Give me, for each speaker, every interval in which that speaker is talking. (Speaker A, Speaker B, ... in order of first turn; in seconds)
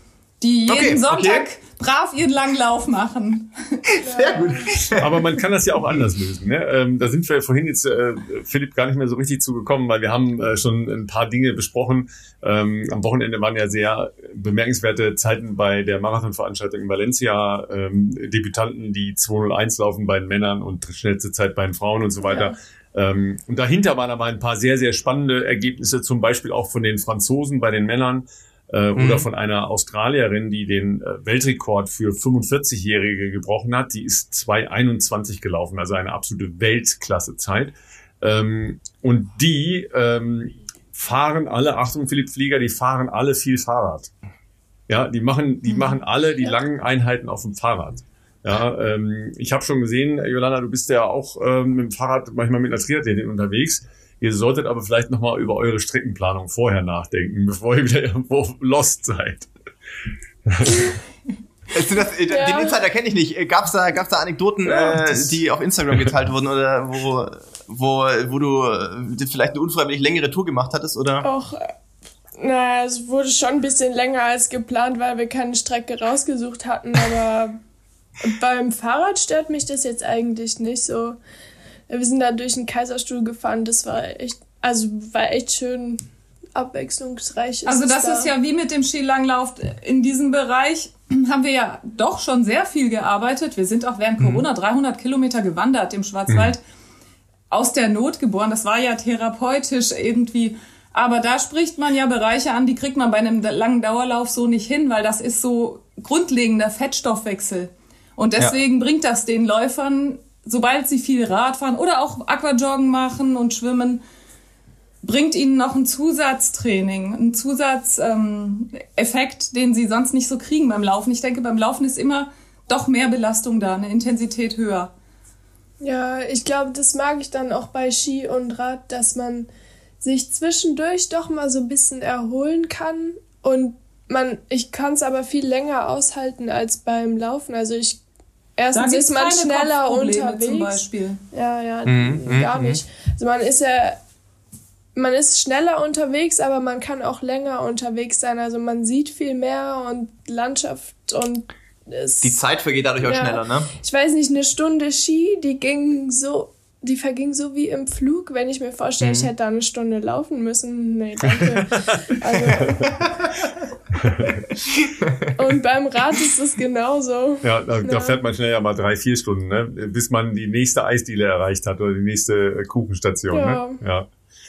Speaker A: 0.4-3.8, 87.6-96.6, 97.5-114.0, 115.0-124.9, 138.7-141.2
Speaker B: 0.7-1.5, 3.9-5.3, 28.9-29.3, 61.7-71.3, 94.2-94.4, 141.8-142.8, 152.2-153.7, 159.0-159.3, 164.9-165.3
Speaker C: 4.0-4.7, 22.2-22.5, 62.3-62.8, 71.2-71.7, 72.4-77.5, 78.2-81.2, 81.9-86.0, 86.5-88.3, 125.8-129.5, 130.0-138.0, 138.6-144.0, 144.9-152.4, 153.0-163.1, 165.3-168.2, 173.3-173.8
Speaker D: 5.0-44.1, 44.9-59.5, 60.5-60.9, 64.7-65.3, 161.3-161.9, 162.5-163.0, 163.9-164.4, 167.4-174.1